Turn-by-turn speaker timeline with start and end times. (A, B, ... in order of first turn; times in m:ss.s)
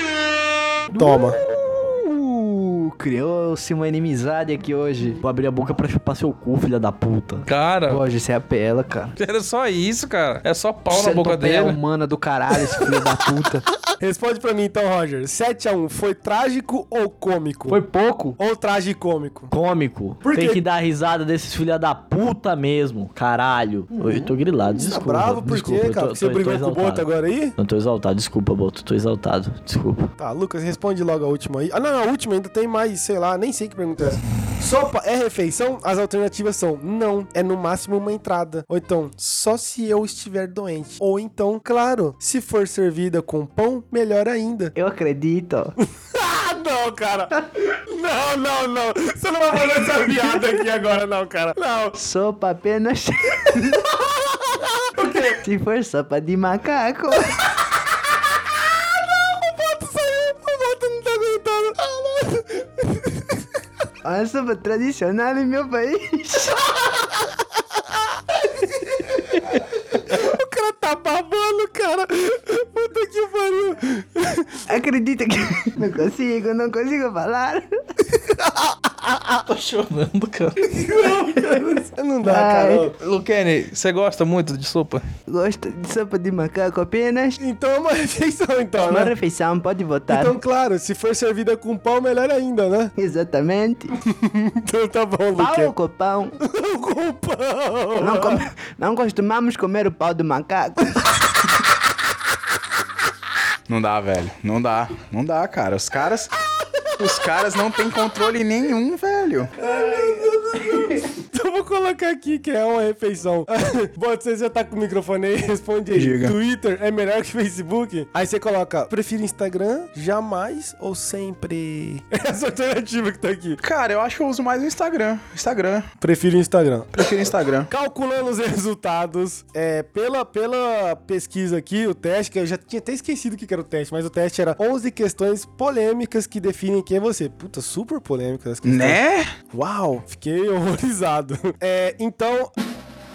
0:00.9-0:05.2 A
0:00.9-0:01.4 B
0:05.2-0:07.5 C
0:07.5-0:08.0 D
0:07.9-0:09.1 A
0:09.2-0:11.8 D
0:10.9-0:13.7 A
0:14.0-0:17.8 B
0:17.7-0:18.4 A
0:18.4-0:19.5 B
0:19.5-0:30.1 C
0:20.2-0:20.6 B
0:23.9-0:27.5 B
0:30.2-0:44.7 B
0:44.7-0:45.8 A
0:46.0-0:52.0 B
0:52.0-0:53.9 A
0:53.5-0:55.4 B
0:55.4-0:57.4 A
0:57.3-1:03.4 B
1:04.0-1:06.6 A
1:06.7-1:07.4 B
1:08.0-1:14.7 B
1:14.7-1:18.0 A
1:18.2-1:19.4 B
1:19.4-1:20.8 D
1:20.7-1:22.9 B
1:21.0-1:21.6 A
1:22.2-1:22.9 A
1:23.0-1:25.0 D
1:25.3-1:27.4 A
1:27.4-1:29.1 B
1:28.8-1:30.3 A
1:30.1-1:32.9 B
1:33.0-1:34.0 A
1:34.0-1:35.7 B
1:35.4-1:36.4 A
1:36.4-1:38.5 B
1:38.0-1:41.2 A
1:43.7-1:46.3 E
1:47.0-1:49.5 E
1:49.6-2:03.6 B
1:56.0-1:56.3 E
2:03.6-2:05.9 E
2:06.0-2:19.0 B
2:07.0-2:07.7 E
2:18.6-2:19.3 E
2:19.5-2:22.5 B